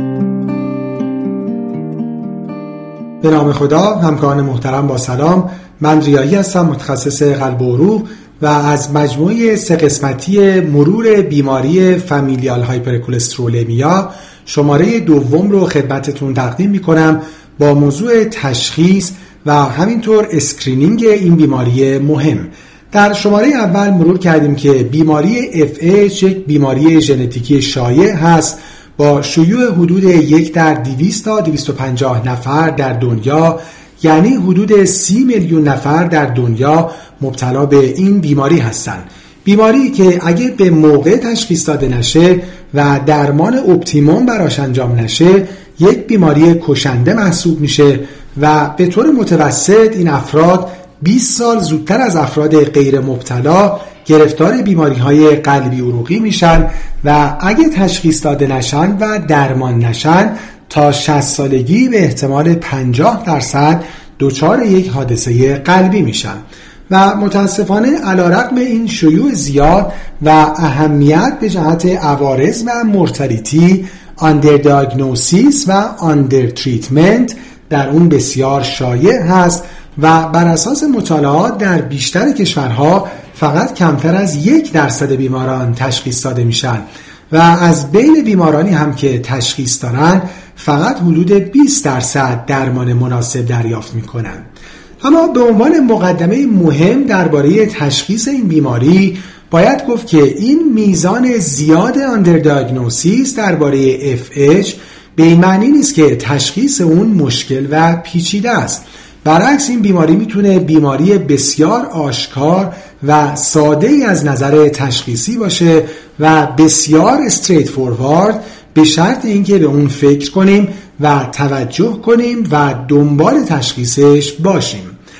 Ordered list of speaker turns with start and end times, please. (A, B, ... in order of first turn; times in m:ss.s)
0:03.2-1:34.4 A
1:35.0-2:05.0 A